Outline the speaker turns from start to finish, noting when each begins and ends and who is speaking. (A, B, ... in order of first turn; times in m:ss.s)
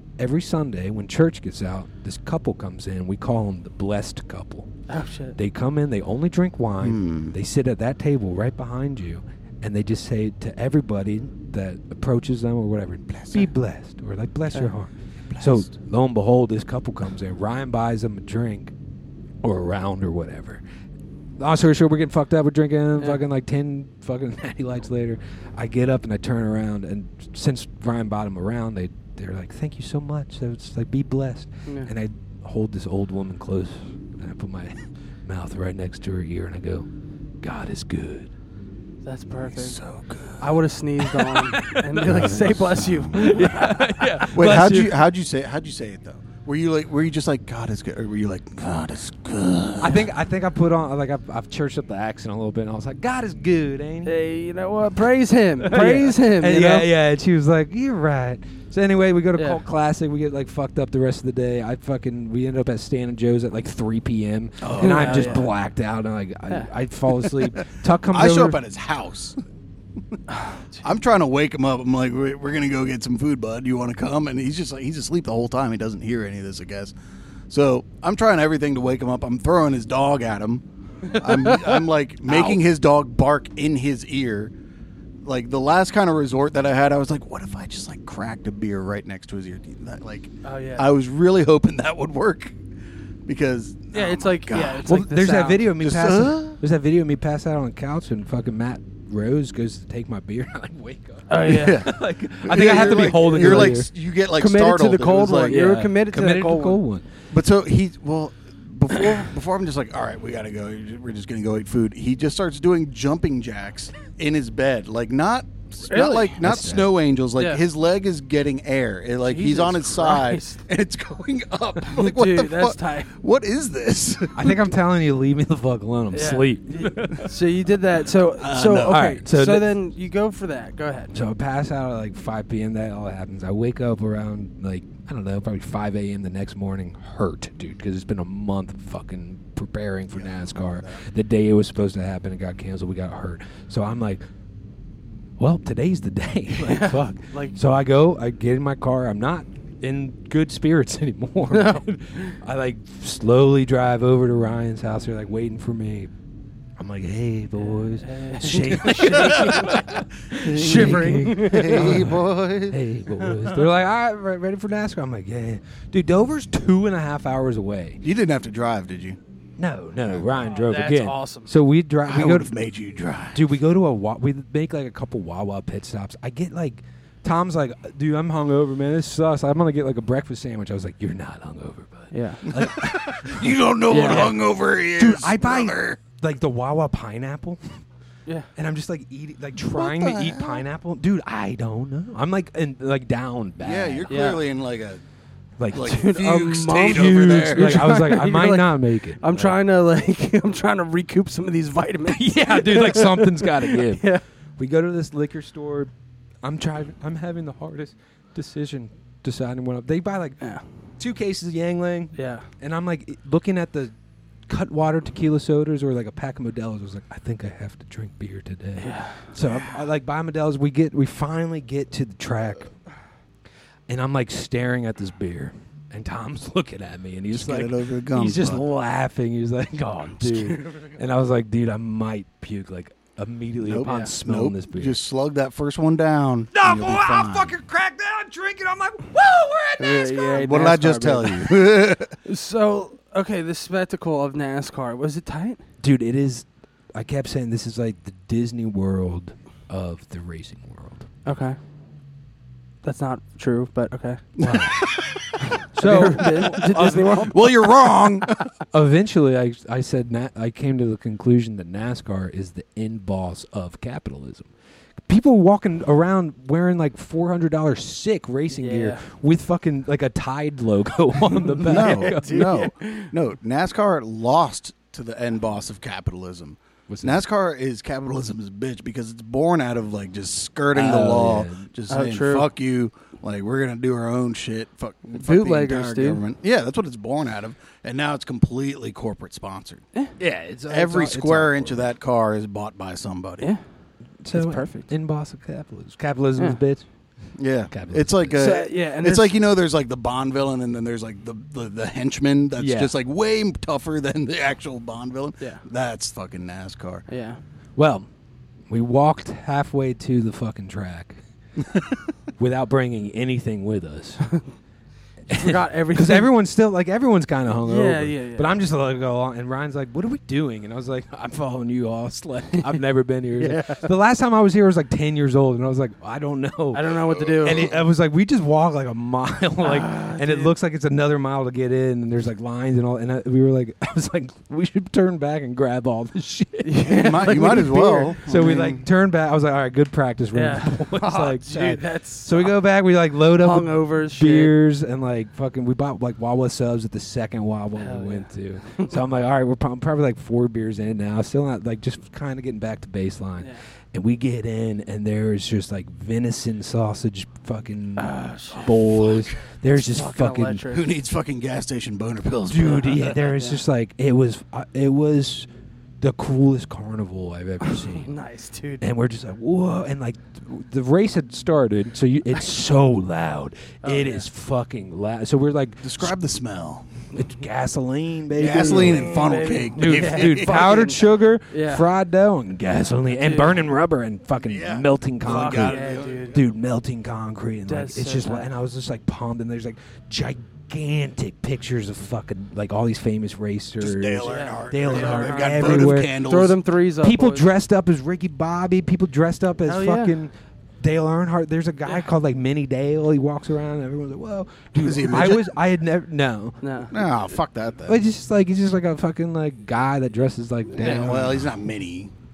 0:00.2-0:04.7 A
0:04.9-0:05.4 B
0:05.4-0:18.7 A
0:06.8-0:07.3 C
0:13.1-0:13.5 C
0:15.3-0:15.7 C
0:19.4-0:20.6 A
0:21.4-0:36.9 A
0:37.4-0:38.3 A
0:39.0-0:39.8 B
0:39.5-0:40.5 C
0:40.4-0:44.3 B
0:41.0-0:45.0 A
0:42.0-0:43.4 C
0:44.3-0:50.1 C
0:49.8-0:54.1 A
0:54.0-0:56.9 B
0:55.6-1:08.6 A
0:59.4-0:59.6 B
1:04.6-1:05.5 C
1:04.8-1:05.5 B
1:07.3-1:07.6 C
1:08.1-1:09.4 C
1:10.3-1:10.8 B
1:10.8-1:16.9 C
1:17.5-1:24.5 C
1:21.1-1:21.8 B
1:22.3-1:22.6 B
1:25.2-1:32.6 C
1:30.4-1:30.9 B
1:33.2-1:34.8 C
1:33.9-1:35.7 B
1:34.8-1:43.9 A
1:35.8-1:36.6 C
1:41.3-1:41.8 B
1:41.4-1:45.7 C
1:43.2-1:43.8 B
1:44.3-1:46.8 B
1:45.5-1:47.1 A
1:47.3-2:04.6 C
1:55.9-1:56.4 B
1:56.4-1:56.9 A
1:57.4-1:57.6 B
1:59.3-2:00.6 B
2:01.9-2:03.1 B
2:04.4-2:07.4 A
2:06.1-2:11.1 B
2:08.4-2:09.1 C
2:08.8-2:09.7 A
2:11.1-2:24.2 A
2:20.1-2:21.0 C
2:25.4-2:36.1 A
2:26.6-2:27.6 B
2:31.5-2:32.4 B
2:36.8-2:48.0 A
2:37.6-2:39.8 B
2:40.4-2:42.0 B
2:40.4-2:42.8 C
2:48.0-2:49.2 C
2:49.6-2:52.5 A
2:50.5-2:51.5 B
2:52.1-2:53.4 C
2:53.3-3:04.4 A
3:02.1-3:02.5 B
3:02.5-3:06.0 C
3:03.9-3:04.3 B
3:05.0-3:07.8 A
3:08.6-3:14.2 A
3:09.8-3:10.6 C
3:13.6-3:15.0 C
3:14.1-3:14.4 B
3:15.6-3:19.5 A
3:15.7-3:18.0 C
3:15.8-3:24.2 B
3:22.0-3:24.1 A
3:24.6-3:25.9 A
3:26.4-3:30.4 A
3:31.0-3:33.9 A
3:32.2-3:32.5 B
3:34.5-3:42.7 A
3:38.8-3:39.3 B
3:43.9-3:55.0 A
3:47.3-3:48.6 C
3:50.3-3:51.0 B
3:53.6-3:57.5 C
3:53.8-3:54.1 B
3:56.5-4:00.5 A
3:59.8-4:01.5 B
4:00.4-4:02.2 C
4:02.2-4:05.6 B
4:05.8-4:11.1 A
4:11.2-4:11.6 B
4:12.8-4:14.3 B
4:14.4-4:15.3 C
4:14.4-4:14.8 A
4:15.7-4:17.3 A
4:15.8-4:17.7 B
4:16.3-4:18.4 C
4:18.7-4:24.5 A
4:25.1-4:32.5 A
4:28.5-4:29.0 B
4:31.6-4:33.1 B
4:31.6-4:49.8 C
4:36.9-4:37.2 A
4:40.7-4:41.7 A
4:41.9-4:42.5 B
4:45.2-4:46.2 B
4:50.2-4:51.8 A
4:50.7-4:53.5 C
4:54.2-4:56.9 A
4:54.3-4:54.9 B
4:57.4-5:07.1 C
4:57.7-4:58.6 A
4:58.4-4:59.4 B
5:02.6-5:02.9 A
5:07.1-5:07.4 B
5:07.8-5:08.1 A
5:08.7-5:11.2 A
5:12.4-5:14.3 A
5:15.3-6:00.7 A
5:15.3-5:16.3 B
5:17.6-5:18.6 B
5:23.4-5:23.9 B
5:26.7-5:27.7 B
5:29.6-5:30.5 B
5:36.6-5:38.2 B
5:36.9-5:38.9 C
5:40.3-5:42.5 B
5:43.4-5:44.5 B
5:47.8-5:48.9 B
5:58.0-5:59.1 B
5:59.7-6:01.0 B
6:00.7-6:03.3 C
6:02.5-6:05.5 A
6:02.9-6:03.6 B
6:06.0-6:08.1 A
6:07.7-6:08.8 B
6:08.8-6:16.2 A
6:13.8-6:14.3 B
6:15.8-6:16.8 C
6:17.1-6:36.2 A
6:18.4-6:20.8 C
6:18.4-6:21.9 B
6:23.2-6:23.6 B
6:24.4-6:26.4 C
6:25.2-6:26.4 B
6:27.7-6:28.5 B
6:33.8-6:36.6 C
6:34.2-6:37.5 B
6:37.0-6:46.6 A
6:39.6-6:40.1 B
6:44.8-6:45.5 C
6:46.6-6:46.9 B
6:46.9-6:48.0 C
6:47.9-6:51.6 A
6:50.8-6:52.1 C
6:50.8-6:51.1 B